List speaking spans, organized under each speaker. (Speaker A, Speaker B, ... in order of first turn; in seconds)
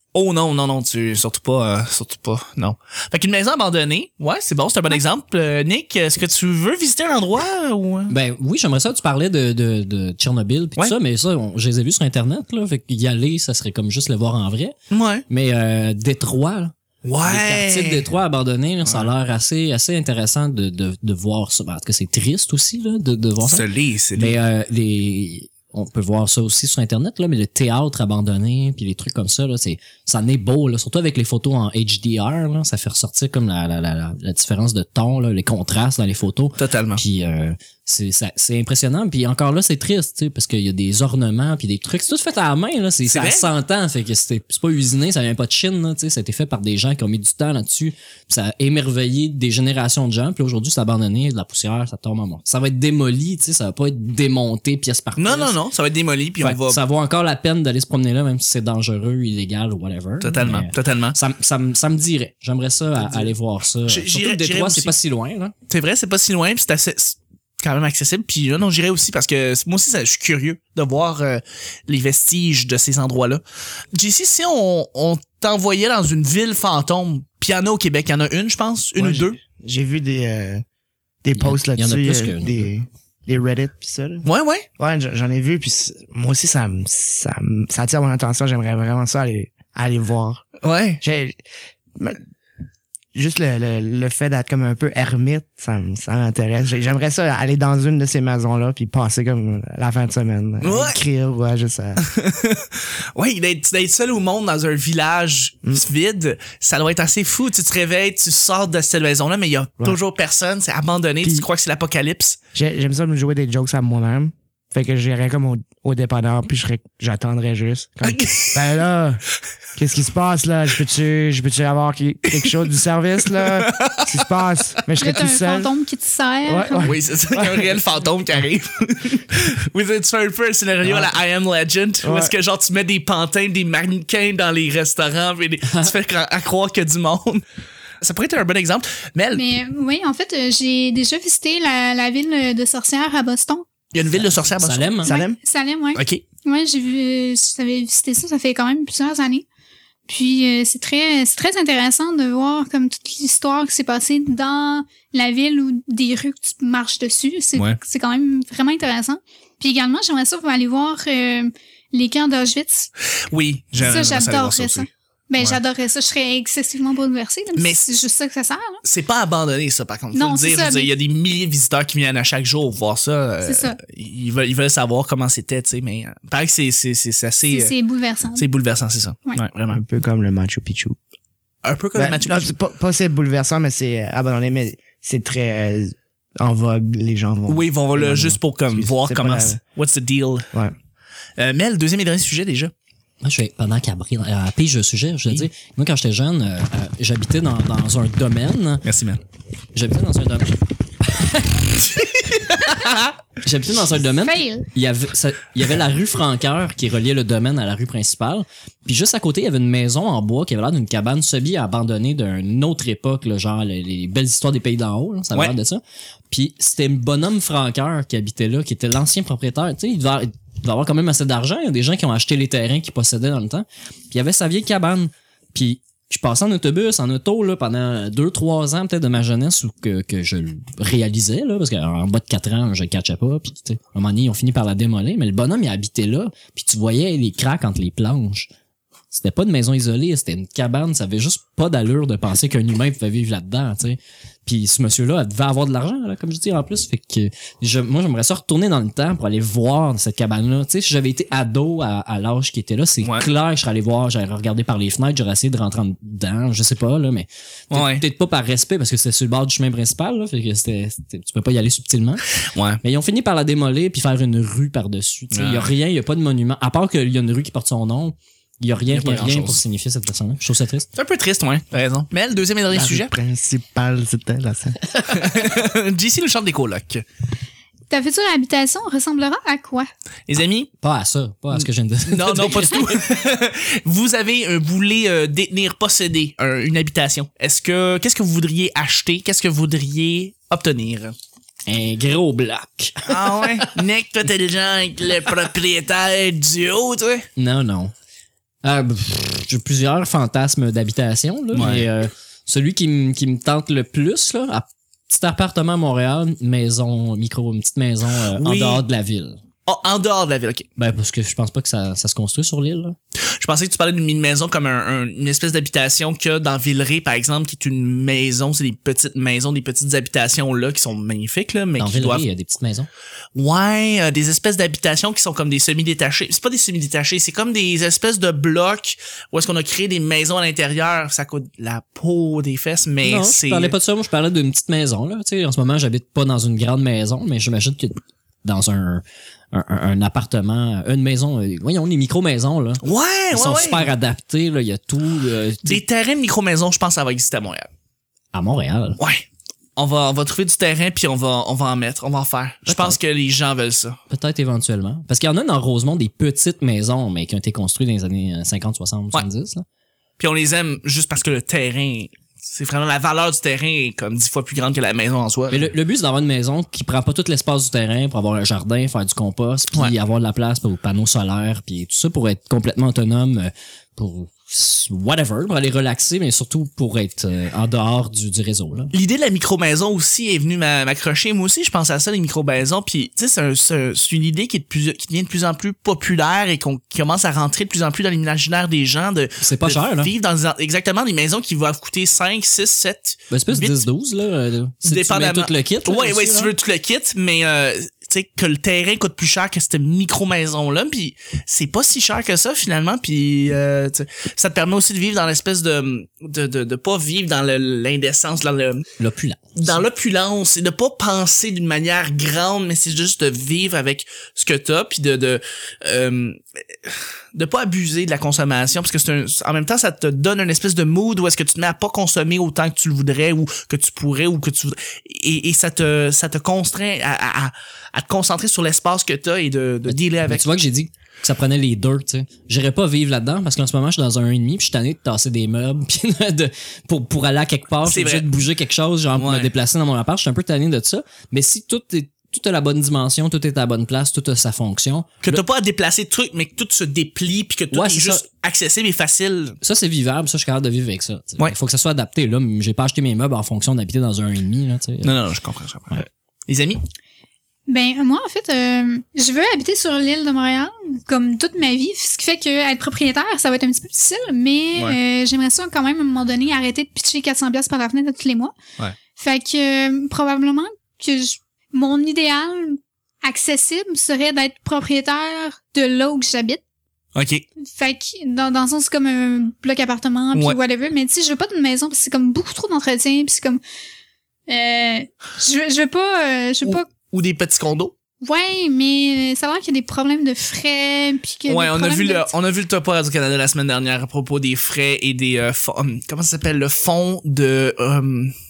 Speaker A: 0.1-8.1, 14.9-15.2, 17.0-18.1, 23.4-24.4, 36.6-37.0, 43.1-43.5, 55.2-56.8, 60.2-61.2, 63.0-63.3, 63.9-64.9, 65.7-73.4, 73.9-79.4, 84.2-84.7, 90.6-91.0, 100.6-101.0, 102.0-112.4, 118.0-118.8, 123.3-124.3, 126.8-137.4, 138.0-139.5, 143.9-145.0, 145.9-146.2, 163.3-164.9, 167.6-167.9, 168.8-177.7, 178.4-179.8, 181.6-182.5, 187.5-190.5, 191.4-192.7, 198.8-199.2, 201.9-203.2, 253.0-253.3, 257.7-258.0, 262.5-262.8, 265.3-265.7, 268.9-269.6, 270.9-273.1, 275.1-277.0, 280.3-280.7, 281.5-291.1, 293.1-297.3, 301.5-301.9, 308.3-308.8, 309.7-310.7, 313.2-322.2, 323.4-333.8, 342.8-343.9, 345.6-347.7, 349.0-349.2, 349.8-354.0, 360.2-365.7, 378.9-393.8, 394.9-408.9, 409.6-430.5, 437.9-438.3, 439.2-439.5, 445.2-449.6, 455.0-456.8, 477.1-477.4, 486.6-487.9, 491.5-498.3
Speaker B: 8.1-14.8, 15.3-23.6, 24.2-55.6, 56.4-65.5, 81.4-82.6, 144.2-145.1, 193.2-198.8, 199.7-201.9, 203.4-238.5, 239.1-262.3, 262.8-270.9, 280.8-283.1, 291.7-293.7, 297.4-297.9, 298.6-309.4, 310.8-313.0, 321.8-322.9, 333.0-345.8, 348.3-349.0, 352.7-353.0, 354.1-359.6, 365.5-378.9, 389.4-390.1, 393.3-396.5, 409.0-409.8, 429.9-445.4, 447.7-448.2, 449.6-455.2
Speaker C: 79.0-80.6, 81.2-84.3, 84.8-90.5, 91.0-91.4, 92.0-92.2, 93.1-102.0, 111.2-111.5, 112.5-119.2, 119.8-125.7, 126.5-127.8, 132.0-132.3, 145.0-145.4, 179.7-181.0, 182.0-189.6, 272.7-274.8
Speaker D: 125.0-126.9, 139.3-143.7, 145.1-149.4, 150.1-162.9, 163.8-168.8, 170.1-170.9, 173.4-173.8, 177.5-178.5, 204.2-204.7, 277.9-279.9, 457.7-468.6, 469.2-476.6, 477.6-483.6, 484.5-486.9, 488.2-492.3